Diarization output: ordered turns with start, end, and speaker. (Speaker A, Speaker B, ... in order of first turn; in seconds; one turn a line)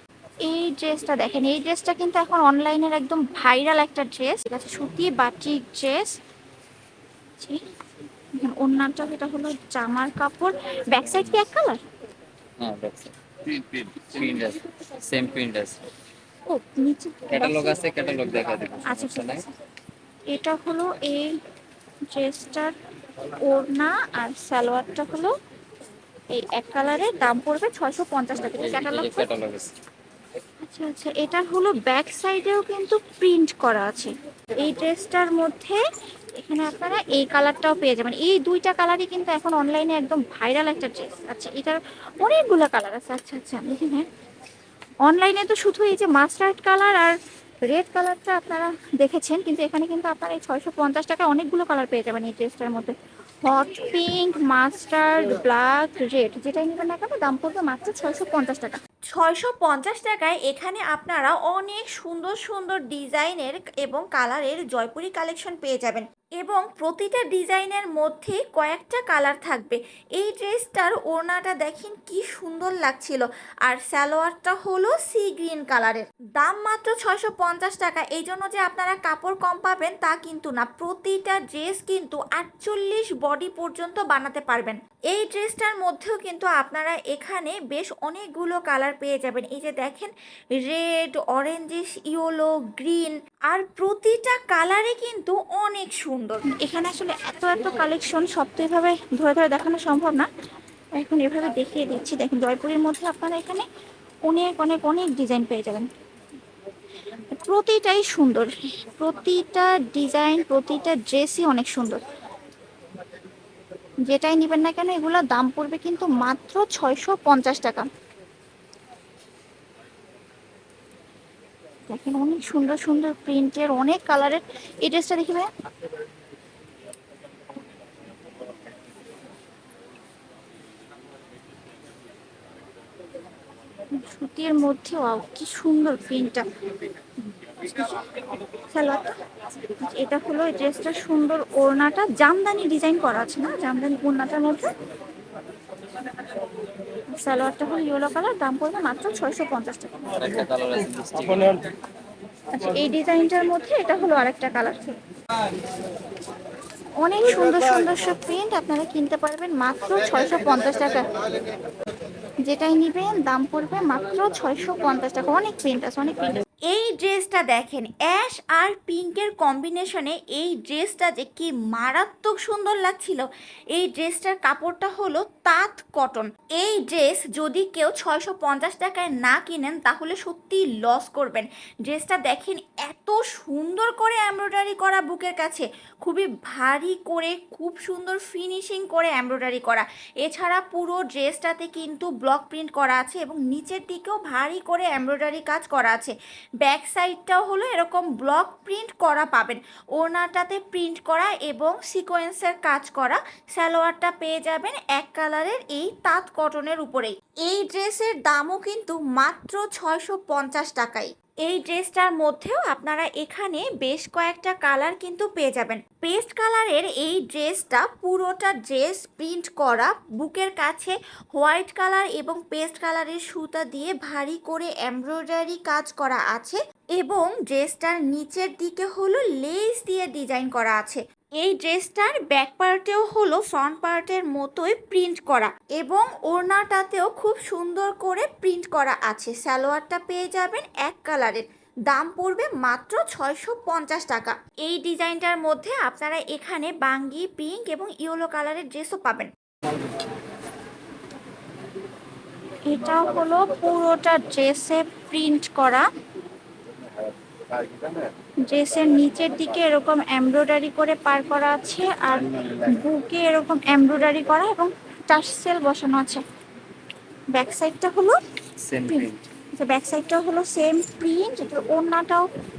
Speaker A: 0.5-6.1
Speaker A: 8.4-11.8
Speaker B: 12.6-15.8
Speaker A: 16.5-17.8
Speaker B: 17.3-19.4
Speaker A: 18.8-19.4
Speaker A: 20.3-21.3
Speaker A: 22.1-22.7
Speaker A: 23.5-25.3
Speaker A: 26.3-29.3
Speaker B: 28.4-29.7
Speaker A: 30.6-35.8
Speaker A: 36.4-44.1
Speaker A: 45.0-58.8
Speaker C: 59.1-96.4
Speaker A: 96.6-100.3
Speaker A: 101.0-103.7
Speaker A: 104.2-105.9
Speaker A: 107.4-112.0
Speaker A: 114.1-117.9
Speaker A: 121.9-125.5
Speaker A: 134.0-136.3
Speaker A: 137.6-138.0
Speaker A: 138.7-139.1
Speaker A: 139.9-144.6
Speaker A: 147.2-150.0
Speaker B: 150.2-151.6
Speaker A: 152.6-154.9
Speaker A: 157.0-161.1
Speaker A: 162.4-166.4
Speaker C: 166.7-249.3
Speaker A: 252.7-255.8
Speaker A: 258.5-262.2
Speaker C: 258.6-260.3
Speaker C: 261.1-261.7
Speaker A: 262.8-264.4
Speaker C: 264.0-266.2
Speaker C: 267.4-268.1
Speaker B: 268.6-269.3
Speaker C: 269.6-272.2